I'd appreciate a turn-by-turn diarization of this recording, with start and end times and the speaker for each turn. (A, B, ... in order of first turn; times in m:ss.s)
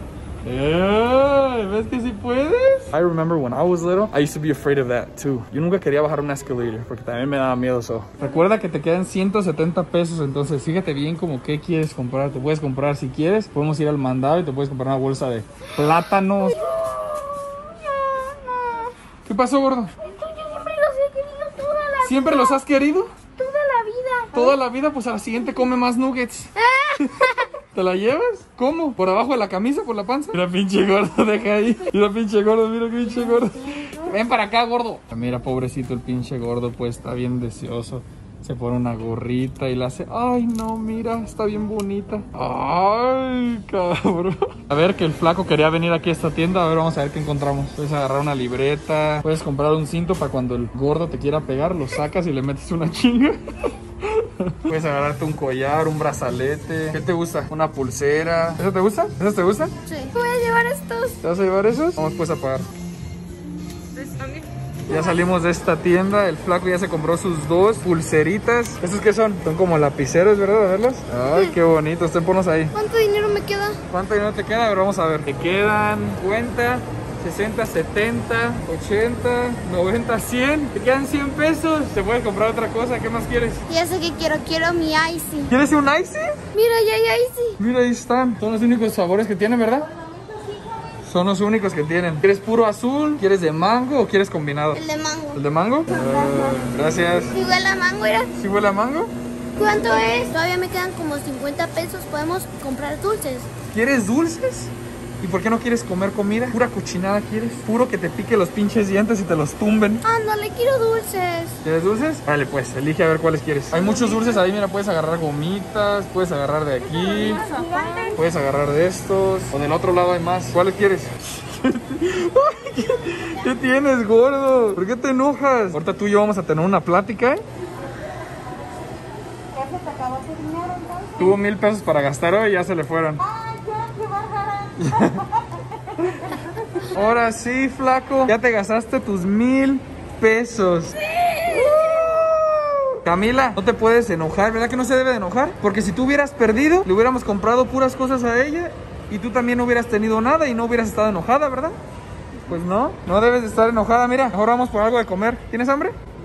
0:00.4-0:16.6 A
0:16.6-0:18.9 B
0:19.2-0:19.9 A
0:20.0-0:22.6 B
0:22.0-0:23.2 A
0:23.3-0:24.5 B
0:24.3-0:26.5 A
0:26.6-0:27.5 B
0:27.7-0:53.4 A
0:54.0-0:59.7 A
0:59.8-1:01.2 B
1:01.2-1:02.6 A
1:04.0-1:04.5 C
1:04.9-1:12.7 A
1:04.9-1:05.2 B
1:12.7-1:13.8 B
1:13.9-1:23.6 A
1:23.7-1:25.5 B
1:25.5-1:26.4 A
1:26.5-1:27.6 B
1:27.6-1:29.9 A
1:31.0-1:34.8 A
1:34.7-1:35.4 B
1:35.3-1:37.4 A
1:35.9-1:36.6 B
1:37.3-1:38.3 B
1:38.3-1:39.1 A
1:39.6-1:43.5 B
1:43.7-1:50.0 A
1:50.0-1:51.6 B
1:51.6-1:57.4 A
1:53.8-1:54.4 B
1:56.9-1:58.2 B
1:57.2-1:58.2 C
1:58.1-2:07.4 A
2:09.5-2:11.0 C
2:11.1-2:13.2 A
2:13.7-2:14.4 C
2:14.8-2:15.2 A
2:16.8-2:31.7 A
2:32.5-2:35.9 A